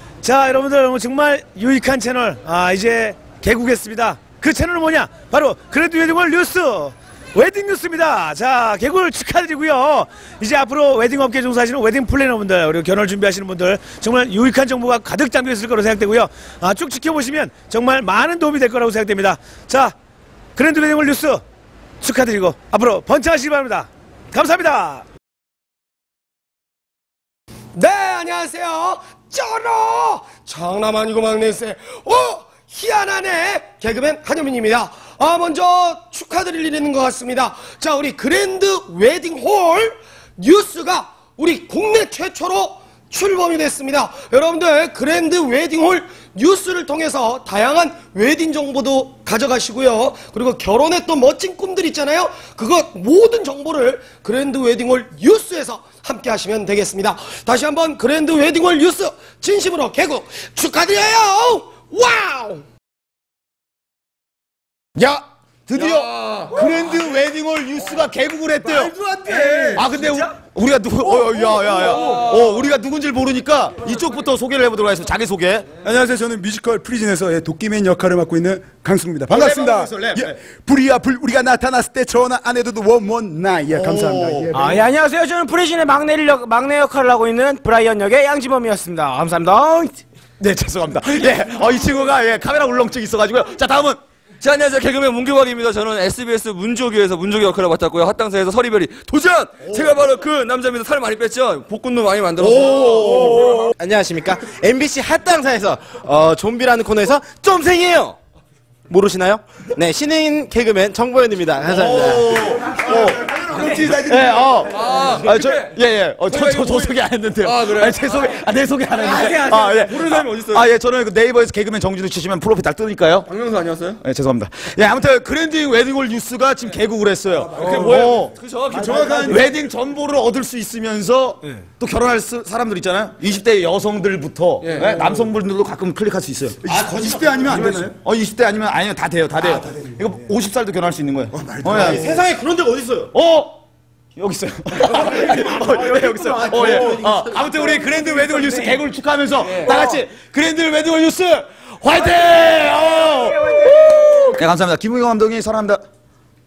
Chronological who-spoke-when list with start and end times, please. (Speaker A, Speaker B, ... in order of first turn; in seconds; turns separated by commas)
Speaker A: 0.2-19.9, Speaker A: 20.6-21.4, Speaker A: 22.0-25.0, Speaker B: 27.7-62.6, Speaker C: 65.0-68.9, Speaker D: 68.6-69.9, Speaker C: 69.7-75.8, Speaker D: 71.1-72.0, Speaker D: 75.8-84.8, Speaker C: 79.3-80.3, Speaker C: 83.7-84.6, Speaker E: 84.5-90.0, Speaker C: 90.4-94.0, Speaker F: 94.4-103.7, Speaker E: 103.3-108.2, Speaker E: 108.9-112.3, Speaker C: 111.7-123.3, Speaker D: 112.7-114.3, Speaker F: 114.7-118.2, Speaker F: 119.0-120.7, Speaker F: 123.3-124.0, Speaker C: 124.0-128.3, Speaker F: 127.5-129.5, Speaker D: 128.7-129.3, Speaker C: 129.1-142.2, Speaker F: 134.6-135.0, Speaker D: 136.6-137.9, Speaker D: 141.4-142.1, Speaker B: 142.2-143.0, Speaker C: 143.0-143.6, Speaker C: 144.2-155.8